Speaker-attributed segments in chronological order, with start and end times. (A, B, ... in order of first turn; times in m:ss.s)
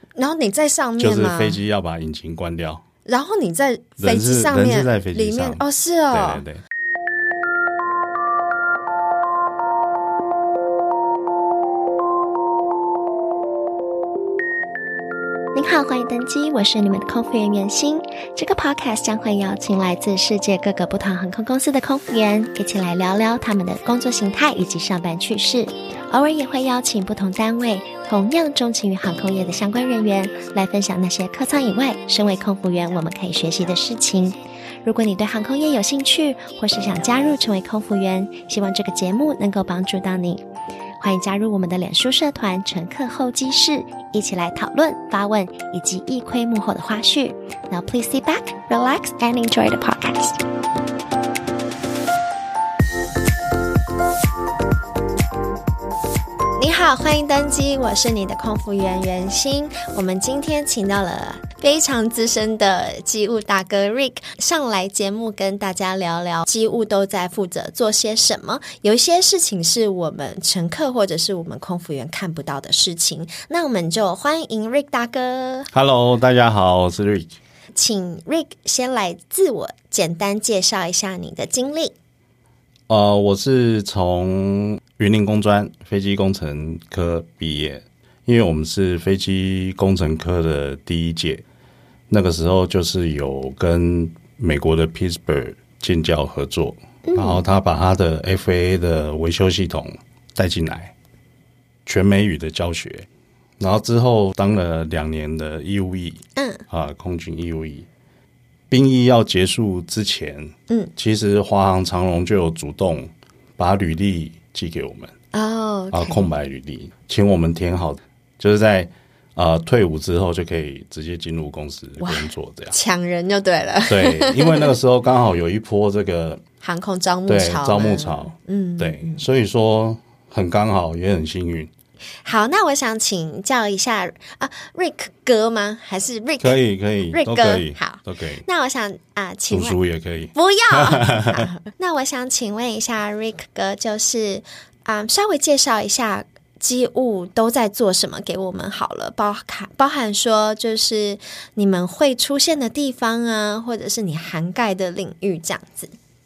0:00.2-0:01.6 A
0:01.0-0:02.8 B
0:03.0-0:06.4 A
0:04.0-0:06.6 B
0:15.5-0:40.4 C
0:41.0-0:50.4 C
0:56.6-1:15.7 A
1:15.7-1:17.4 B
1:17.8-1:22.0 A
1:22.9-1:31.4 B
1:32.1-1:40.9 B
1:37.1-1:37.4 A
1:41.9-1:43.1 B
1:43.6-1:47.9 B
1:48.7-1:55.1 B
1:55.3-1:56.2 A
1:55.9-2:02.8 B
2:02.0-2:04.8 A
2:03.9-2:06.4 B
2:06.6-2:09.2 A
2:07.3-2:11.7 B
2:12.2-2:16.6 A
2:16.4-2:18.4 B
2:17.1-2:19.8 A
2:19.5-2:21.5 B
2:20.3-2:35.9 A